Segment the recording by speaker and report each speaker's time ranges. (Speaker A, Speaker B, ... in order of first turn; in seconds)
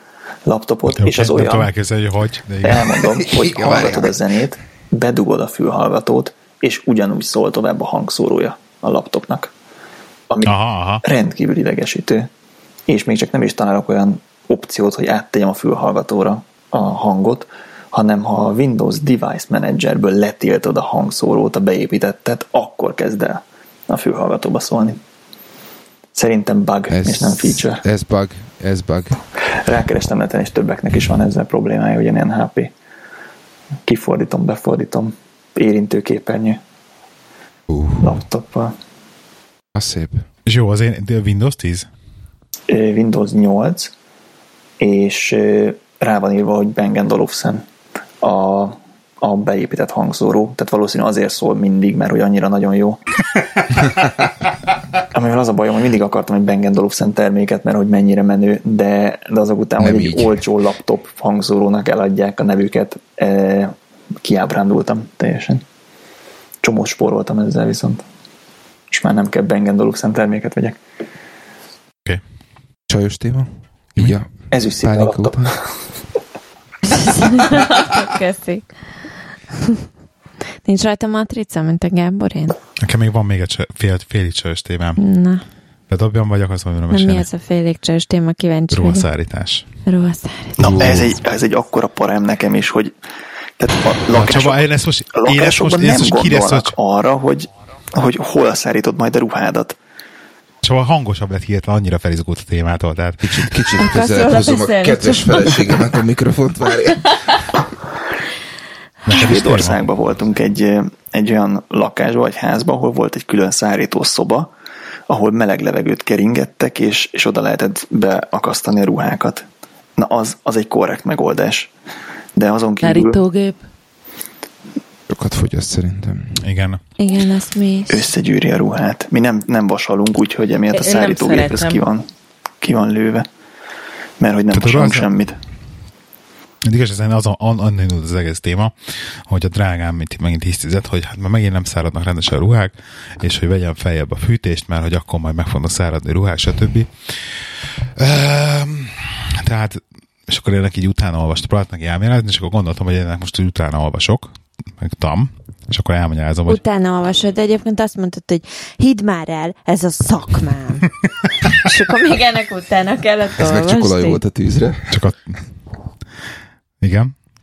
Speaker A: 0.5-1.7, 2.6-9.5, 10.3-12.3, 12.9-25.0, 26.1-27.8, 29.5-32.7, 33.9-36.6, 38.0-38.7, 42.7-43.9, 44.8-47.6, 48.2-53.0, 55.1-65.6, 66.6-68.0, 68.9-70.8, 74.5-75.7, 90.6-92.9, 93.6-99.8, 109.1-114.5, 115.1-119.4, 120.0-121.7, 122.4-123.2, 127.9-132.1, 132.6-133.3, 134.2-135.4
Speaker B: 1.0-2.9, 10.4-11.0, 40.5-41.9, 82.8-85.0, 85.9-87.2, 88.7-89.7, 90.8-91.0, 94.1-96.7, 100.6-103.7, 109.0-109.9, 126.4-126.8, 134.5-135.1, 136.6-147.1, 148.0-156.6, 164.9-165.4, 166.8-167.1
Speaker C: 3.0-4.2, 26.9-29.2, 37.7-38.2, 39.7-40.2, 59.8-60.4, 72.9-75.6, 90.6-91.1, 103.2-107.2, 125.1-126.4, 163.4-165.0
Speaker D: 76.9-78.7, 80.6-82.6, 85.0-85.4, 86.9-89.1, 89.8-90.7, 103.8-105.7, 107.1-107.4, 127.0-128.1, 156.5-160.9, 161.5-164.2
Speaker E: 122.8-123.6, 130.7-131.8